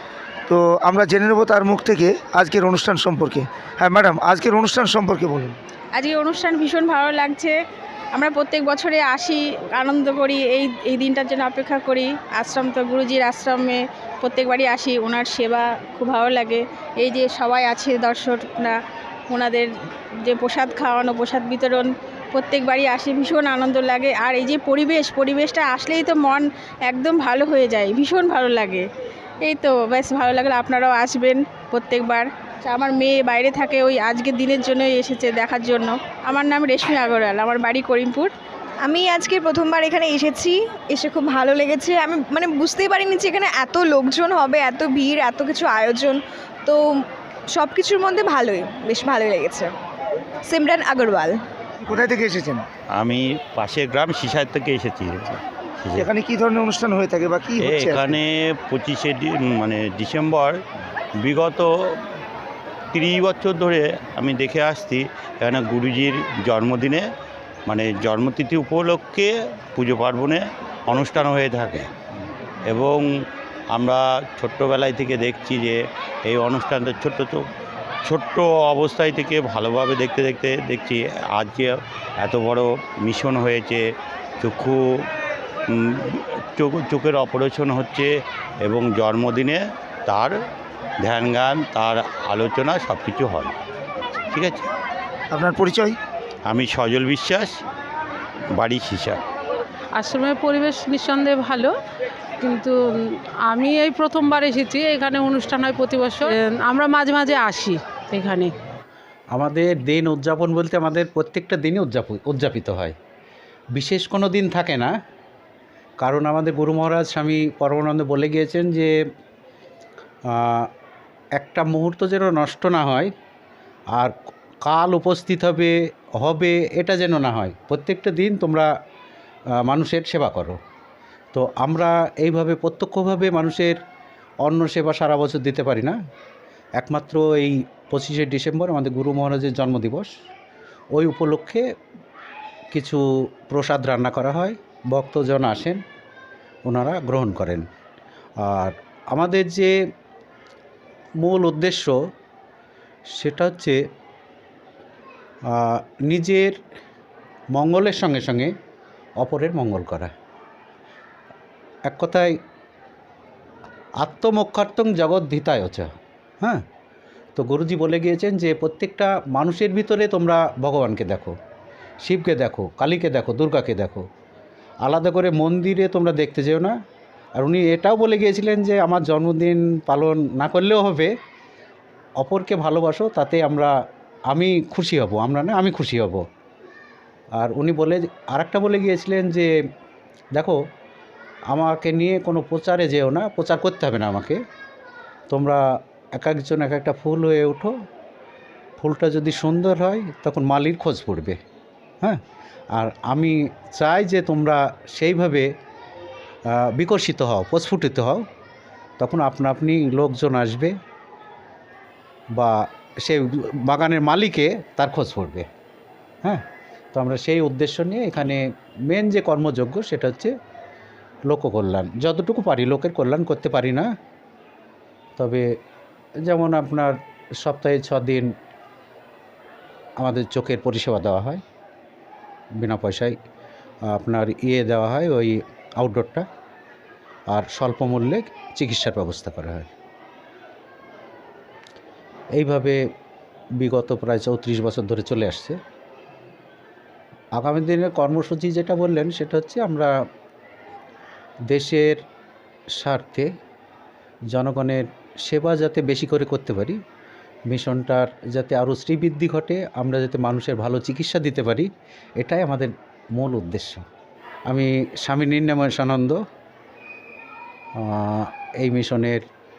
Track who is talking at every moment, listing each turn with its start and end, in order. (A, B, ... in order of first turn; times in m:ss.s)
0:00.5-0:05.6 A
0:06.0-0:07.6 B
0:08.2-0:18.8 B
0:19.3-0:19.7 B
0:20.2-0:28.8 B
0:29.4-0:38.3 B
0:38.8-0:46.8 C
0:47.5-0:49.7 C
0:50.5-0:51.4 C
0:51.8-0:52.6 A
0:52.9-0:56.1 D
0:56.0-0:58.2 A
0:57.6-1:00.6 D
1:01.2-1:01.7 D
1:02.9-1:07.0 D
1:07.7-1:11.9 D
1:12.7-1:13.0 D
1:13.7-1:17.4 D
1:18.0-1:23.8 D
1:24.4-1:24.8 D
1:25.7-1:28.1 D
1:28.6-1:30.3 D
1:31.0-1:33.5 D
1:34.3-1:34.7 D
1:35.3-1:36.0 A
1:36.5-1:37.6 D
1:38.6-1:39.2 D
1:40.0-1:41.7 E
1:42.4-1:48.5 E
1:49.3-1:53.0 F
1:53.8-1:55.0 F
1:56.0-1:59.0 F
2:00.3-2:00.7 F
2:01.4-2:03.1 F
2:03.9-2:08.7 F
2:09.6-2:10.6 F
2:11.3-2:13.8 F
2:14.4-2:16.0 F
2:16.8-2:20.1 F
2:20.9-2:21.6 F
2:22.7-2:25.8 F
2:26.7-2:27.7 F
2:28.4-2:29.8 F
2:31.2-2:32.0 F
2:33.2-2:33.8 F
2:35.5-2:36.6 F
2:37.5-2:38.5 F
2:39.2-2:40.1 F
2:41.9-2:42.4 F
2:44.0-2:45.9 F
2:47.4-2:51.4 F
2:52.0-2:54.0 F
2:54.8-2:56.8 F
2:57.4-3:01.1 F
3:02.2-3:03.7 F
3:04.3-3:06.2 F
3:07.4-3:09.5 F
3:11.5-3:14.4 F
3:15.3-3:17.7 F
3:18.8-3:21.4 F
3:22.7-3:25.5 F
3:26.5-3:28.2 F
3:29.0-3:30.8 F
3:32.4-3:35.5 F
3:36.2-3:40.3 F
3:41.3-3:43.9 F
3:45.2-3:45.5 F
3:46.2-3:48.3 F
3:50.0-3:51.4 F
3:52.6-3:53.2 F
3:53.9-3:56.3 F
3:57.3-3:59.7 F
4:02.4-4:02.8 F
4:03.6-4:05.6 F
4:07.4-4:09.9 F
4:11.5-4:12.0 F
4:12.8-4:13.3 F
4:14.3-4:16.8 F
4:17.5-4:21.7 F
4:22.2-4:23.8 F
4:24.5-4:26.2 F
4:27.8-4:29.2 F